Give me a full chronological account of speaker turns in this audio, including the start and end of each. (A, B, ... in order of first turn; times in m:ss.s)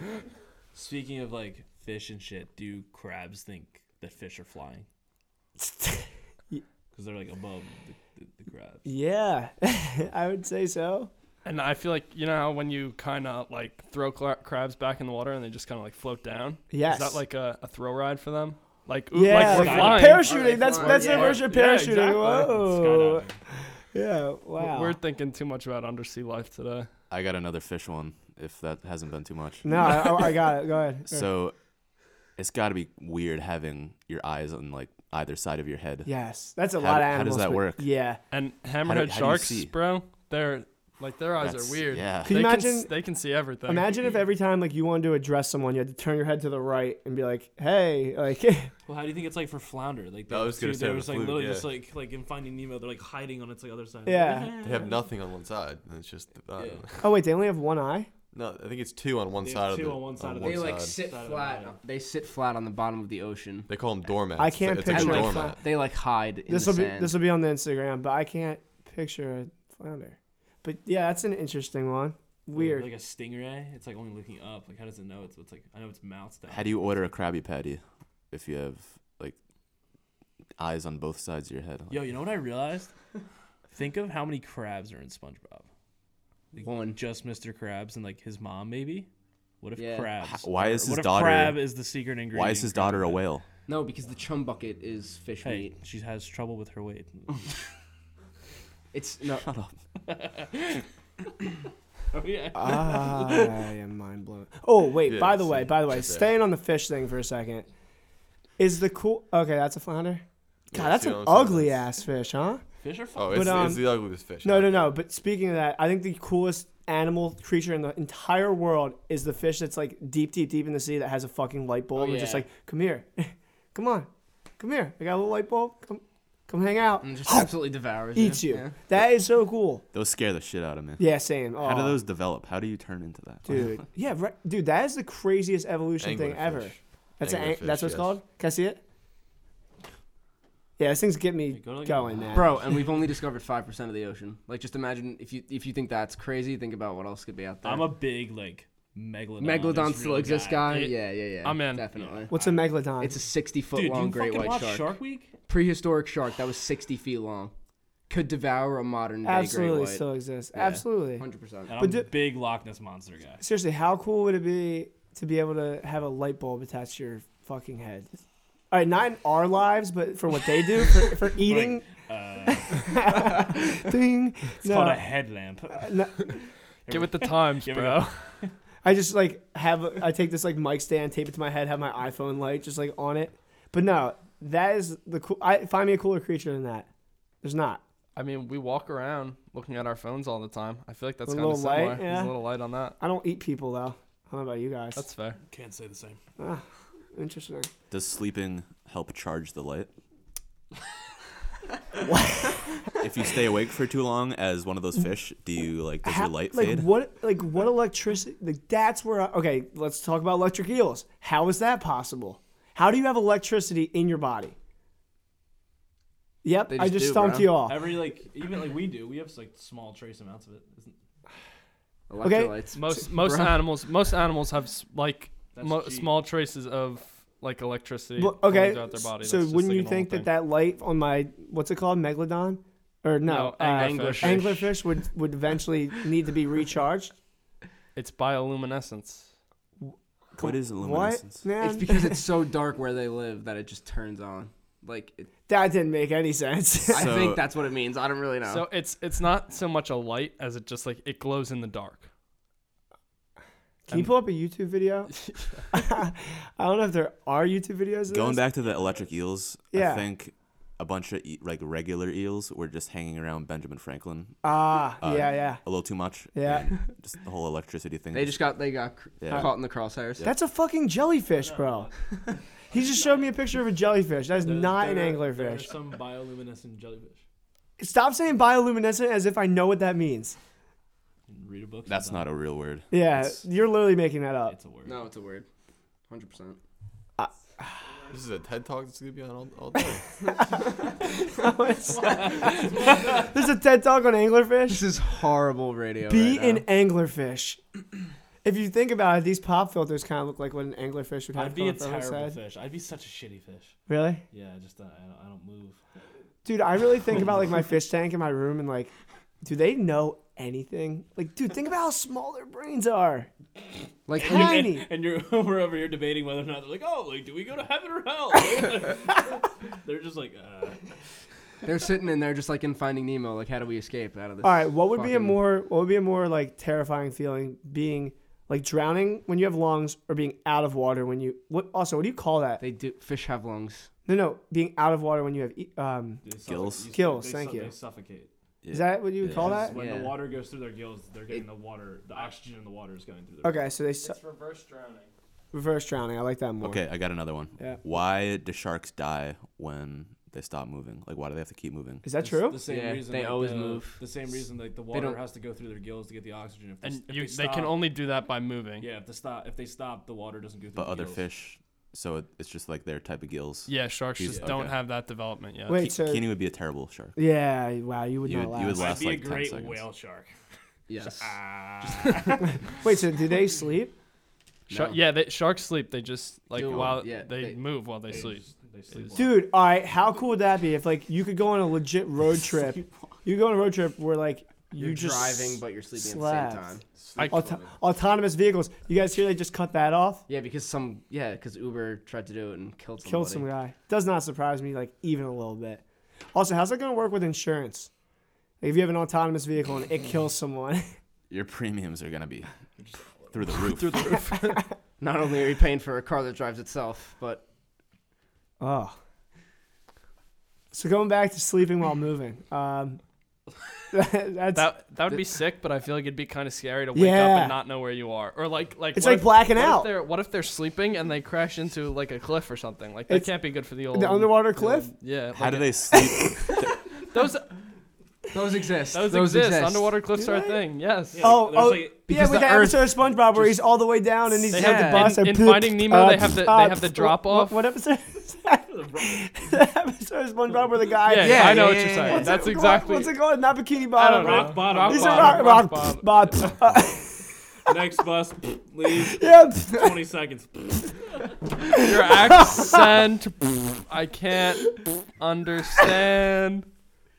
0:00.7-0:04.9 A
0:05.6-0:06.6 B
0:06.9-0:08.9 A
0:08.9-0:11.1 B
0:11.4-0:20.3 C
0:16.7-0:17.2 B
0:19.1-0:23.3 B
0:19.4-0:23.4 A
0:19.5-0:21.5 D
0:23.9-0:25.0 B
0:24.6-0:26.9 C
0:27.1-0:30.3 E
0:29.6-0:31.3 B
0:31.1-0:31.6 E
0:32.4-0:36.1 E
0:36.0-0:38.2 B
0:36.8-0:37.9 E
0:38.3-0:43.9 C
0:38.8-0:39.7 E
0:41.4-0:42.4 E
0:42.2-0:42.9 B
0:43.7-0:48.7 B
0:48.9-0:55.0 A
0:50.3-0:51.7 F
0:54.1-0:54.8 B
0:54.6-0:57.0 F
0:56.6-0:57.0 A
0:57.0-0:58.1 B
0:58.3-1:01.0 F
0:59.4-1:01.8 A
1:00.4-1:03.7 D
1:03.7-1:05.6 F
1:04.4-1:05.6 B
1:04.9-1:07.2 D
1:06.5-1:12.9 B
1:12.6-1:17.2 A
1:16.5-1:19.4 E
1:20.6-1:22.0 E
1:21.9-1:22.9 A
1:23.7-1:25.7 A
1:26.5-1:29.1 A
1:26.6-1:27.0 D
1:29.6-1:33.2 A
1:29.8-1:30.2 D
1:30.2-1:31.6 E
1:32.3-1:33.4 E
1:33.7-1:35.8 D
1:35.4-1:37.6 A
1:38.9-1:39.5 D
1:39.3-1:39.7 E
1:40.0-1:40.8 A
1:42.1-1:43.6 A
1:42.5-1:47.7 B
1:45.1-1:46.3 F
1:48.6-1:52.6 B
1:50.7-1:51.8 F
1:52.8-1:53.8 A
1:53.2-1:54.9 F
1:53.3-1:53.9 B
1:54.4-2:09.8 B
2:01.9-2:02.5 D
2:07.0-2:08.8 D
2:09.9-2:13.7 E
2:11.0-2:12.0 B
2:13.5-2:18.8 B
2:16.0-2:18.2 F
2:20.8-2:22.6 B
2:21.5-2:22.7 A
2:22.3-2:27.9 D
2:27.6-2:30.8 A
2:29.4-2:32.3 D
2:30.7-2:31.8 C
2:31.9-2:32.8 A
2:32.3-2:33.2 B
2:33.0-2:35.0 D
2:33.7-2:35.3 A
2:35.5-2:37.5 D
2:38.1-2:41.8 D
2:39.2-2:41.2 B
2:41.7-2:43.4 A
2:41.8-2:42.1 B
2:43.4-2:48.2 B
2:48.7-2:51.8 B
2:51.4-2:53.5 A
2:52.5-2:55.0 B
2:54.6-2:58.5 A
2:55.7-2:56.1 B
2:56.9-2:58.2 C
2:58.8-3:06.9 B
3:07.4-3:07.8 B
3:08.2-3:13.0 C
3:11.3-3:12.4 B
3:13.0-3:15.0 B
3:15.0-3:15.4 C
3:15.5-3:16.2 A
3:16.4-3:17.7 B
3:17.9-3:19.9 E
3:22.0-3:22.9 B
3:23.0-3:26.9 E
3:26.0-3:34.6 B
3:36.4-3:37.9 B
3:36.7-3:37.6 D
3:37.7-3:41.0 A
3:42.1-3:43.7 D
3:42.2-3:42.6 B
3:42.7-3:50.3 C
3:45.6-3:46.2 A
3:48.2-3:57.2 B
3:53.2-3:54.6 C
3:53.6-3:54.7 D
3:58.0-3:59.3 C
3:59.8-4:02.2 B
4:00.4-4:01.4 E
4:01.6-4:05.3 D
4:05.5-4:07.1 B
4:06.9-4:07.4 E
4:06.9-4:08.7 D
4:08.4-4:12.1 C
4:13.9-4:15.2 B
4:15.7-4:18.4 B
4:18.1-4:24.5 E
4:18.6-4:19.2 A
4:19.7-4:20.1 B
4:24.4-4:25.6 B
4:25.0-4:28.6 E
4:26.3-4:26.8 B
4:28.1-4:30.3 D
4:29.2-4:29.6 E
4:30.2-4:31.9 B
4:31.3-4:33.4 A
4:32.7-4:35.8 B
4:34.4-4:37.2 A
4:37.8-4:40.4 B
4:41.3-4:42.3 A
4:41.9-4:42.9 E
4:42.9-4:44.6 B
4:44.5-4:45.1 A
4:44.8-4:45.5 D
4:46.1-4:46.6 D
4:47.2-4:47.9 B
4:48.1-4:50.0 F
4:50.2-4:54.9 B
4:52.0-4:53.3 A
4:54.7-4:56.7 D
4:56.1-4:57.6 B
4:58.4-5:02.4 B
5:01.4-5:03.8 A
5:03.9-5:04.2 B
5:04.3-5:05.8 A
5:06.4-5:13.3 B
5:14.1-5:14.6 D
5:14.2-5:14.9 B
5:14.2-5:20.8 A
5:21.6-5:25.4 D
5:24.4-5:32.6 B
5:32.6-5:33.9 D
5:34.1-5:36.2 B
5:36.2-5:38.3 A
5:36.4-5:36.9 E
5:36.9-5:37.7 B
5:38.6-5:39.6 E
5:38.7-5:39.8 B
5:39.3-5:43.6 A
5:39.6-5:40.2 D
5:43.4-5:44.2 B
5:44.0-5:45.1 C
5:45.5-5:46.8 B
5:46.6-5:52.1 E
5:52.0-5:52.6 B
5:52.2-5:57.8 A
5:52.6-5:54.0 D
5:54.9-5:55.2 D
5:56.8-5:58.9 C
5:58.8-6:01.2 A
6:00.8-6:04.8 E
6:03.7-6:05.9 C
6:04.3-6:04.6 A
6:05.7-6:06.3 B
6:05.7-6:07.2 E
6:07.2-6:08.9 B
6:08.2-6:09.8 E
6:08.7-6:10.3 A
6:10.9-6:12.3 D
6:11.0-6:12.8 A
6:12.4-6:13.9 B
6:14.7-6:15.0 D
6:14.7-6:19.2 C
6:16.5-6:17.6 D
6:16.5-6:16.9 E
6:18.1-6:19.4 A
6:19.2-6:26.7 B
6:24.7-6:26.8 D
6:26.9-6:27.7 F
6:27.3-6:30.2 B
6:30.3-6:33.5 D
6:33.0-6:35.8 B
6:36.3-6:37.9 B
6:38.6-6:40.9 B
6:41.3-6:42.5 E
6:42.8-6:43.4 A
6:43.3-6:44.2 E
6:43.5-6:44.6 C
6:45.0-6:47.4 D
6:48.6-6:49.0 B
6:50.7-6:53.0 B
6:53.9-6:54.7 B
6:54.6-7:06.0 C
6:56.9-6:57.6 B
6:58.9-6:59.9 B
7:03.9-7:04.9 B
7:05.3-7:07.0 E
7:07.1-7:07.5 C
7:08.3-7:10.0 D
7:08.9-7:11.3 C
7:10.1-7:10.6 B
7:11.1-7:12.1 A
7:11.2-7:27.3 B
7:12.1-7:13.5 D
7:14.4-7:15.1 D
7:14.5-7:17.6 C
7:18.7-7:19.6 A
7:21.0-7:23.1 C
7:21.1-7:22.3 D
7:23.9-7:26.5 C
7:24.2-7:25.6 A
7:27.6-7:31.4 A
7:28.9-7:30.0 B
7:31.7-7:32.9 B
7:31.8-7:36.7 C